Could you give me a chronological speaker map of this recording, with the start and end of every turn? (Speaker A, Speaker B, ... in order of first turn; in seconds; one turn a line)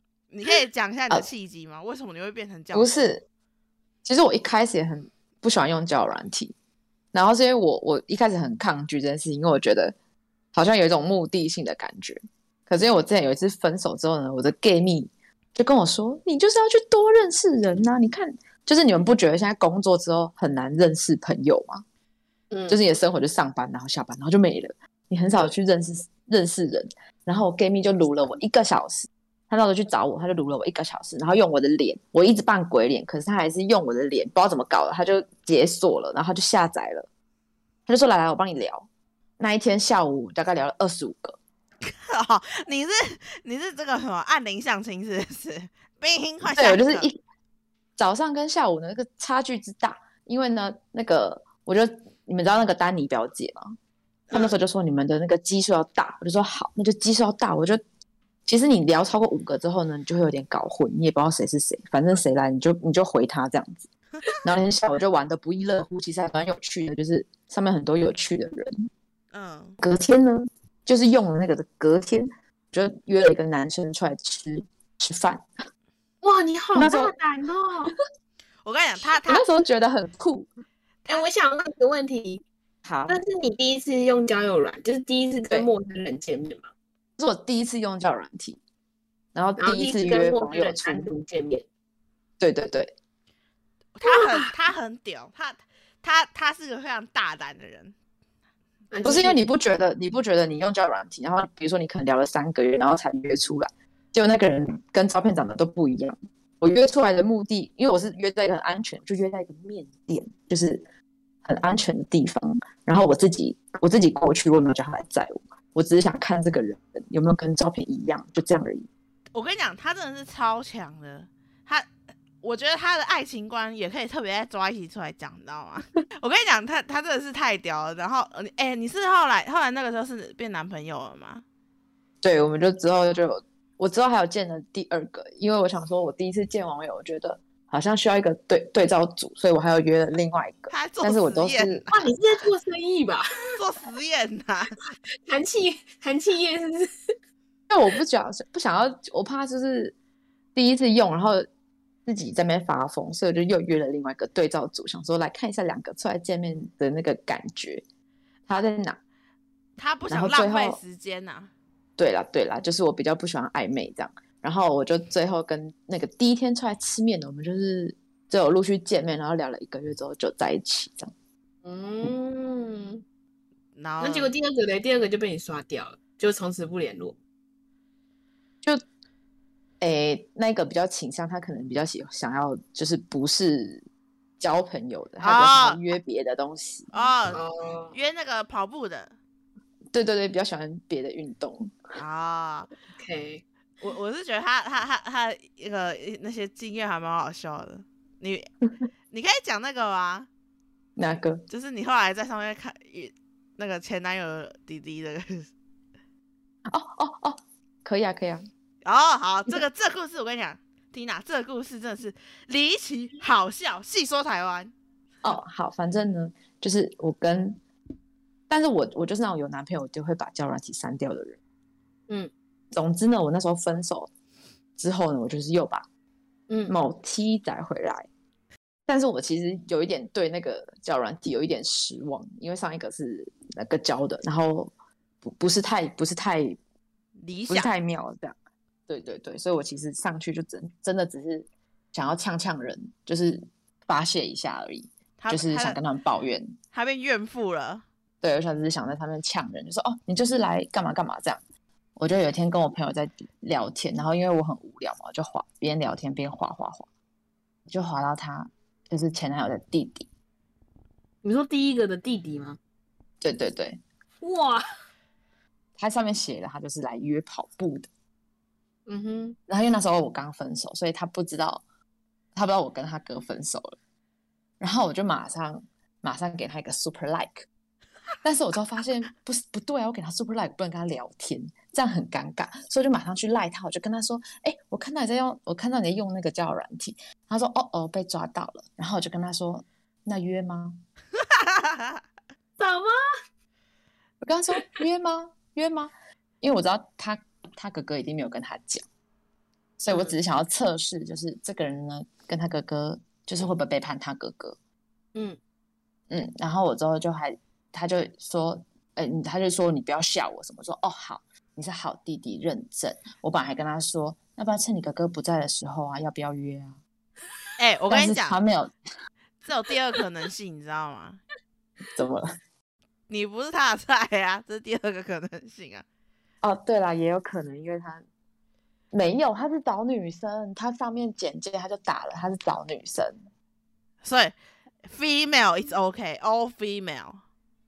Speaker A: 0.3-2.9
Speaker B: 2.7-3.2
Speaker B: 4.0-6.5
Speaker B: 7.1-9.9
Speaker B: 10.5-21.8
Speaker C: 22.5-22.8
Speaker B: 22.7-37.1
Speaker B: 37.9-38.9
Speaker B: 39.4-41.4
Speaker A: 41.8-47.0
Speaker B: 46.5-47.2
Speaker B: 48.0-53.8
Speaker B: 54.3-57.8
Speaker B: 58.5-63.9
Speaker B: 64.4-68.9
Speaker A: 69.3-69.8
Speaker B: 69.8-75.5
Speaker C: 76.2-77.9
Speaker B: 76.7-77.1
Speaker A: 78.6-79.4
Speaker B: 79.2-80.5
Speaker C: 81.1-82.4
Speaker B: 82.8-83.2
Speaker C: 83.1-86.7
Speaker B: 87.2-88.6
Speaker B: 89.3-91.1
Speaker C: 89.6-91.7
Speaker B: 92.4-92.9
Speaker A: 93.9-97.9
Speaker C: 94.0-94.5
Speaker C: 98.9-99.4
Speaker B: 99.0-110.8
Speaker B: 111.4-118.9
Speaker A: 119.3-121.9
Speaker A: 122.4-131.4
Speaker B: 132.2-141.9
Speaker A: 140.7-142.1
Speaker C: 141.9-143.3
Speaker A: 143.6-144.9
Speaker C: 145.2-147.1
Speaker B: 147.7-149.9
Speaker B: 150.5-151.5
Speaker B: 152.1-157.8
Speaker B: 158.5-159.0
Speaker A: 159.8-161.5
Speaker B: 160.1-160.8
Speaker B: 162.0-171.1
Speaker C: 171.6-173.0
Speaker A: 173.8-174.3
Speaker C: 174.0-177.2
Speaker B: 179.8-183.8
Speaker B: 184.4-186.9
Speaker A: 185.2-185.8
Speaker A: 186.9-187.4
Speaker C: 187.3-188.0
Speaker A: 187.9-189.1
Speaker B: 189.9-191.8
Speaker A: 191.9-192.7
Speaker C: 192.9-193.4
Speaker A: 193.8-198.4
Speaker A: 199.1-200.3
Speaker B: 201.0-201.4
Speaker A: 201.5-205.5
Speaker B: 206.7-208.5
Speaker A: 208.8-214.7
Speaker B: 215.2-217.6
Speaker B: 218.5-221.4
Speaker B: 222.7-224.1
Speaker B: 224.8-225.8
Speaker B: 226.7-228.1
Speaker B: 228.9-236.6
Speaker A: 237.2-237.7
Speaker B: 237.5-238.3
Speaker B: 238.9-246.6
Speaker A: 245.2-245.8
Speaker A: 246.7-247.8
Speaker B: 248.2-251.4
Speaker B: 252.0-256.9
Speaker B: 257.7-260.1
Speaker C: 261.2-262.6
Speaker B: 263.2-263.8
Speaker C: 264.2-264.6
Speaker B: 265.8-267.9
Speaker C: 268.9-269.4
Speaker B: 269.5-271.6
Speaker B: 272.3-273.8
Speaker B: 274.6-277.4
Speaker B: 278.2-290.8
Speaker A: 291.3-292.0
Speaker C: 292.6-293.0
Speaker B: 294.2-298.8
Speaker B: 299.8-304.6
Speaker C: 299.9-300.2
Speaker B: 306.1-316.8
Speaker A: 317.6-318.4
Speaker B: 317.9-318.7
Speaker A: 319.4-321.2
Speaker B: 321.9-322.3
Speaker A: 323.1-325.8
Speaker B: 326.4-328.0
Speaker B: 328.9-333.2
Speaker A: 334.0-337.2